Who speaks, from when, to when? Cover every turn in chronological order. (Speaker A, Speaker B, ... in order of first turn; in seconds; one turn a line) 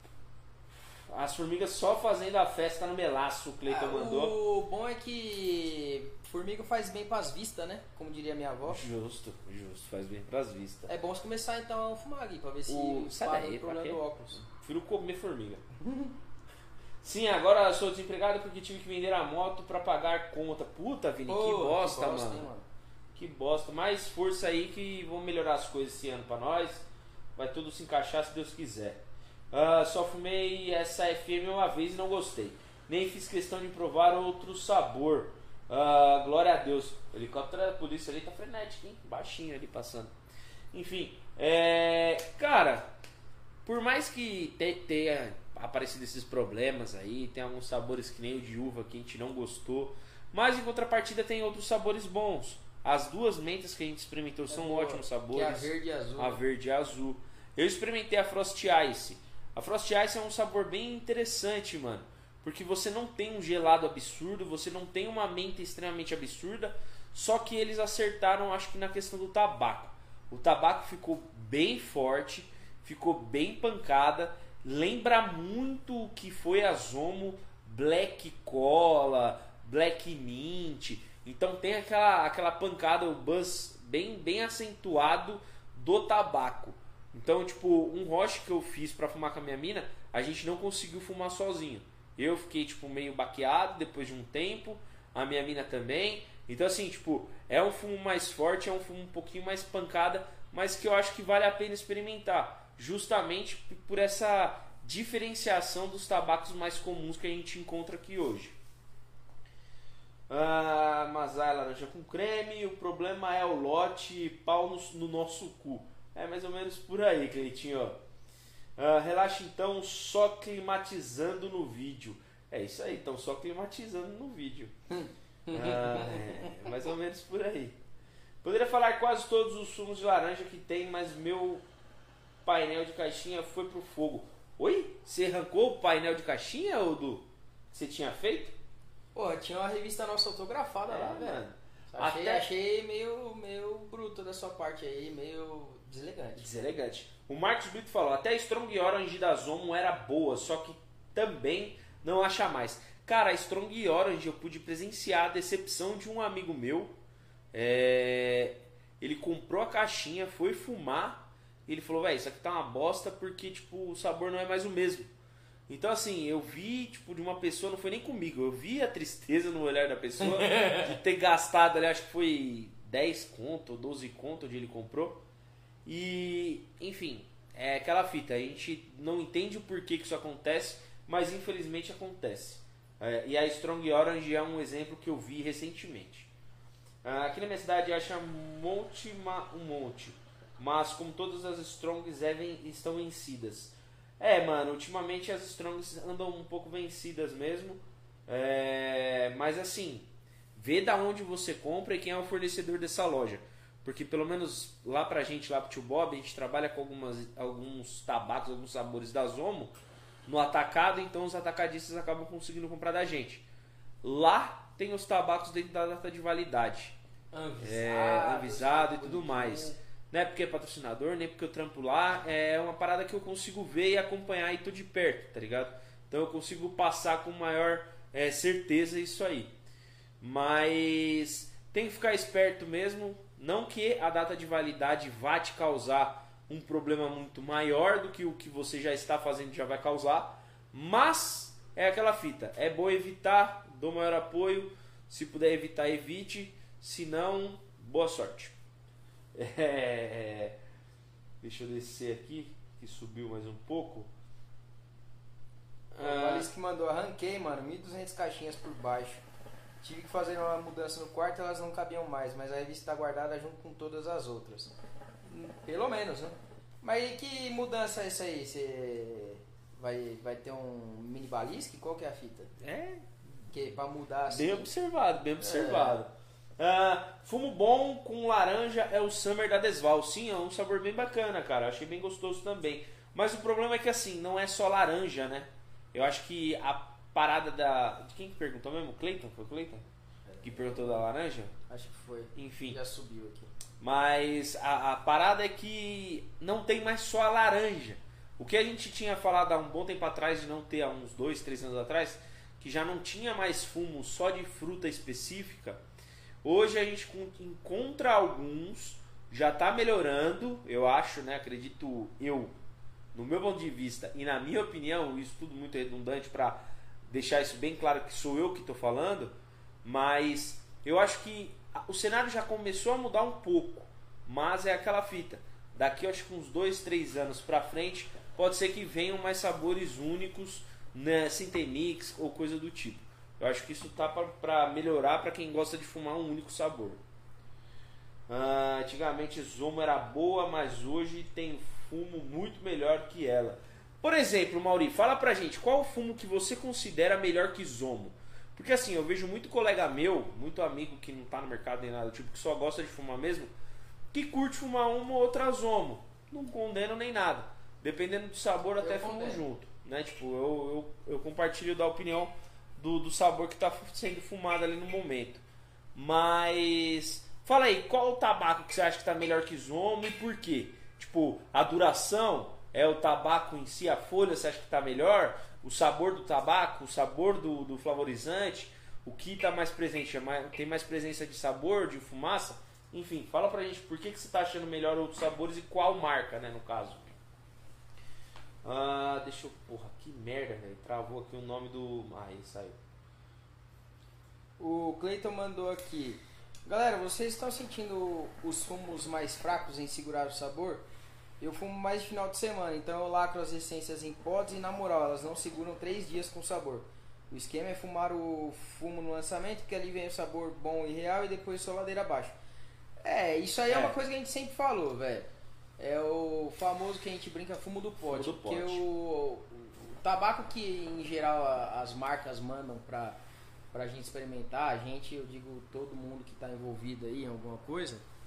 Speaker A: 1.1-4.3
Speaker B: 3.7-8.8
Speaker A: 8.7-10.9
Speaker B: 10.9-14.5
Speaker A: 12.7-15.6
Speaker B: 15.8-16.1
Speaker A: 17.0-22.5
Speaker B: 21.3-22.7
Speaker A: 23.1-40.1
Speaker A: 40.7-42.9
Speaker A: 43.6-108.6
Speaker B: 54.5-56.4
Speaker A: 110.3-118.0
Speaker A: 118.8-124.7
Speaker B: 124.9-126.6
Speaker A: 125.5-127.8
Speaker A: 128.4-131.7
Speaker A: 132.4-138.6
Speaker B: 139.2-146.7
Speaker A: 140.9-142.5
Speaker A: 146.4-157.0
Speaker A: 157.5-165.1
Speaker A: 165.7-175.2
Speaker B: 170.2-170.9
Speaker A: 175.8-186.3
Speaker A: 187.0-213.4
Speaker A: 214.0-217.0
Speaker B: 217.3-219.8
Speaker A: 217.6-229.5
Speaker A: 230.2-248.6
Speaker A: 249.3-250.6
Speaker A: 251.4-254.1
Speaker A: 255.9-256.5
Speaker B: 256.0-259.2
Speaker B: 259.8-264.7
Speaker B: 265.2-272.6
Speaker A: 272.6-273.5
Speaker B: 273.5-274.7
Speaker A: 274.3-289.9
Speaker B: 275.4-276.0
Speaker B: 290.3-291.1
Speaker A: 290.4-291.5
Speaker B: 291.6-293.5
Speaker A: 292.4-292.8
Speaker A: 293.8-305.8
Speaker A: 306.4-312.6
Speaker A: 313.1-337.0
Speaker A: 338.3-353.5
Speaker A: 354.1-365.4
Speaker B: 358.8-359.4
Speaker A: 365.9-387.2
Speaker A: 388.6-392.8
Speaker B: 394.6-400.9
Speaker B: 401.4-412.4
Speaker B: 413.0-423.2
Speaker A: 413.7-413.9
Speaker A: 418.1-418.8
Speaker B: 423.7-428.0